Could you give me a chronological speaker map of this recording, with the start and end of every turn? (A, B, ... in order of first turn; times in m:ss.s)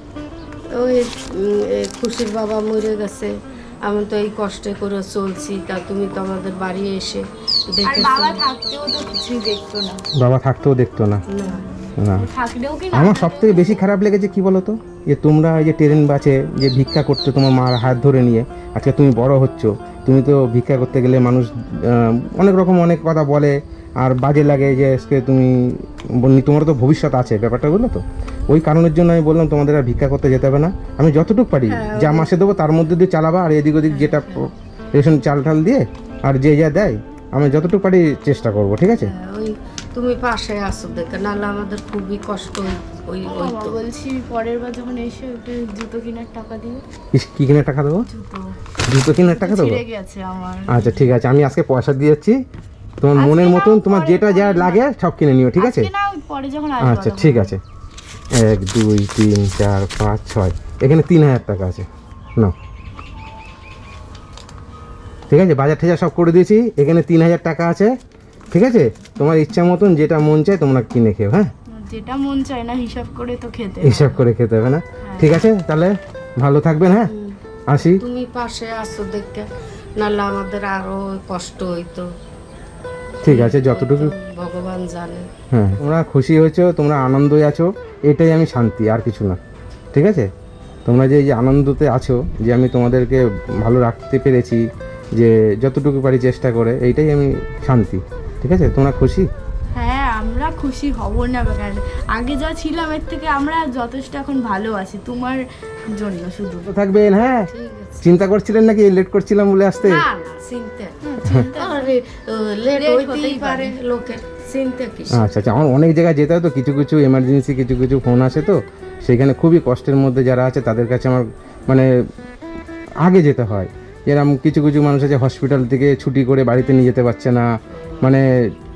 0:00.7-0:08.4 A
0:07.8-0:10.0 B
0:10.2-0:11.2 C
0:11.3-0:11.7 A
0:11.5-0:13.8 B
0:12.0-0:12.3 C
0:12.9-0:39.1 C
0:31.7-0:32.4 A
0:33.9-0:34.4 A
0:39.0-0:43.8 A
0:43.2-0:46.8 B
0:47.1-0:48.0 C
0:48.1-0:48.5 B
0:48.9-0:49.8 C
0:49.1-0:51.1 B
0:50.7-0:52.4 C
0:53.0-0:55.9 C
0:53.2-0:54.8 B
0:55.6-0:57.5 B
0:56.8-0:57.6 C
0:58.3-1:02.6 C
1:05.3-1:07.9 C
1:08.5-1:11.5 C
1:11.7-1:14.2 B
1:13.8-1:17.1 C
1:15.0-1:15.4 B
1:17.1-1:17.4 A
1:17.7-1:18.0 C
1:18.0-1:22.1 A
1:23.2-1:24.1 C
1:23.2-1:25.3 A
1:25.5-1:29.4 C
1:29.9-1:30.3 C
1:30.9-1:34.6 C
1:35.2-1:39.3 C
1:39.7-1:46.7 B
1:46.7-1:47.5 C
1:47.5-1:48.1 A
1:48.0-1:50.0 C
1:49.8-1:55.2 A
1:51.0-1:51.9 B
1:51.2-1:51.5 C
1:52.7-1:53.7 B
1:55.1-2:01.9 C
2:03.0-2:07.4 C
2:07.7-2:08.2 A